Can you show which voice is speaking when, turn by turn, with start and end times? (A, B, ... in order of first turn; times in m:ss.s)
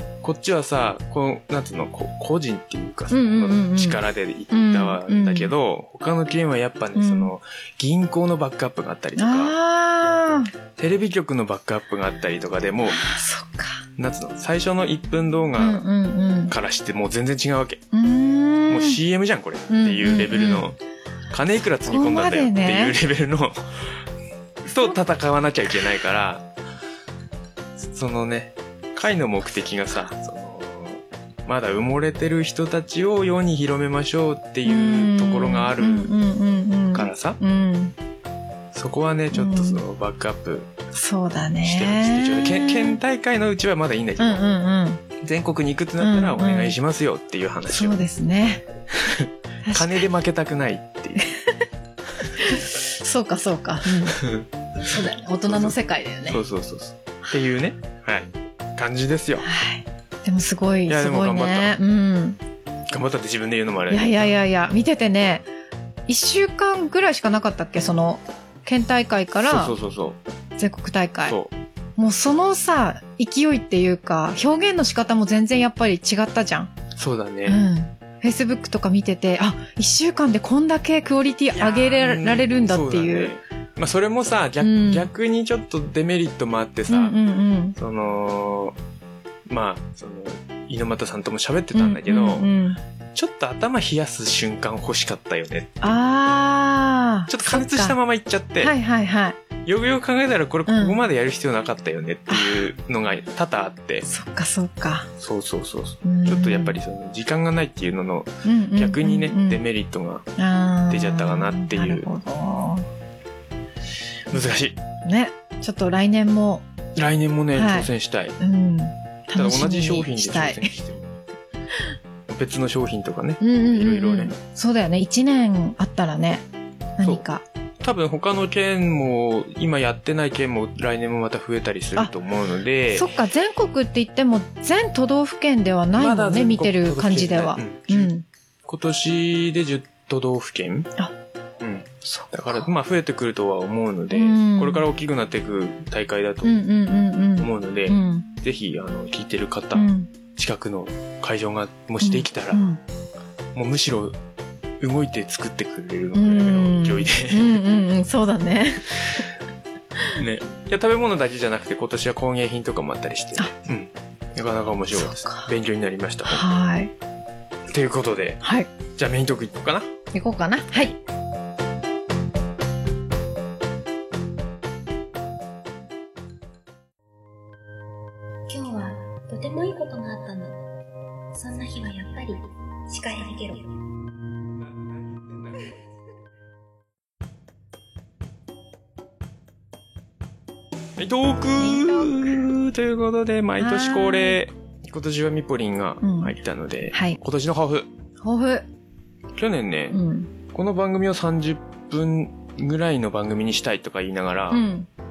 0:00.2-0:09.5 A
0:03.1-0:05.5 B
0:07.0-0:07.3 B
0:09.2-0:10.5 B
0:10.8-0:13.0 A
0:12.9-0:13.8 B
0:14.0-0:15.8 A
0:15.6-0:16.5 B
0:16.5-0:17.8 A
0:17.9-0:19.0 B
0:18.7-0:20.8 A
0:19.7-0:20.7 B
0:21.3-0:23.9 A
0:21.8-0:23.0 B
0:24.6-0:26.4 A
0:27.9-0:36.1 A
0:34.6-0:37.9 B
0:36.9-0:37.4 A
0:38.7-0:40.7 A
0:39.3-0:39.8 B
0:40.9-0:43.0 B
0:41.6-0:44.4 A
0:44.2-0:45.0 B
0:45.2-0:48.0 A
0:46.0-0:46.8 B
0:47.7-0:48.6 B
0:49.0-0:51.3 A
0:49.6-0:50.1 B
0:51.2-0:51.6 B
0:52.4-0:54.2 B
0:54.1-0:54.5 A
0:54.8-0:56.4 B
0:55.5-0:59.5 A
0:59.4-1:02.4 B
1:00.9-1:01.7 A
1:02.9-1:04.3 A
1:03.9-1:05.4 B
1:06.1-1:09.7 B
1:09.4-1:10.2 A
1:10.6-1:11.4 B
1:11.2-1:11.5 A
1:12.0-1:16.7 B
1:17.0-1:17.6 A
1:17.4-1:23.3 B
1:21.6-1:27.1 A
1:24.6-1:25.1 B
1:26.9-1:27.8 B
1:27.8-1:28.8 A
1:29.5-1:32.5 A
1:31.7-1:32.8 B
1:33.1-1:36.0 A
1:35.8-1:38.0 B
1:37.3-1:38.7 A
1:38.6-1:39.4 B
1:39.6-1:44.1 A
1:40.7-1:41.0 B
1:42.3-1:42.7 B
1:44.0-1:45.1 B
1:45.2-1:50.2 A
1:46.0-1:46.8 B
1:48.4-1:49.6 B
1:50.4-1:52.9 B
1:50.9-1:52.1 A
1:54.3-1:54.8 A
1:55.0-1:56.6 B
1:57.0-1:58.4 A
1:57.5-2:00.7 B
1:59.3-2:01.2 A
2:02.3-2:04.3 A
2:03.4-2:06.4 B
2:07.0-2:07.4 B
2:07.8-2:13.1 A
2:12.9-2:18.2 B
2:16.0-2:18.1 A
2:18.6-2:20.9 A
2:21.6-2:26.6 A
2:22.0-2:22.7 B
2:24.1-2:24.8 B
2:26.4-2:28.3 B
2:27.4-2:32.6 A
2:29.7-2:30.1 B
2:32.0-2:32.8 B
2:33.5-2:34.2 A
2:34.8-2:37.6 A
2:36.1-2:39.2 B
2:40.1-2:46.5 A
2:44.9-2:45.5 B
2:46.2-2:46.9 B
2:47.7-2:48.4 A
2:48.4-2:48.7 B
2:48.9-2:49.9 A
2:50.1-2:51.0 B
2:58.5-3:00.6 C
3:01.3-3:03.8 C
3:05.3-3:05.6 A
3:11.0-3:17.9 A
3:11.6-3:12.4 B
3:13.6-3:14.4 B
3:16.0-3:16.3 B
3:16.9-3:17.2 B
3:18.2-3:18.6 B
3:19.4-3:20.0 A
3:19.9-3:20.3 B
3:20.5-3:24.7 A
3:24.5-3:24.9 B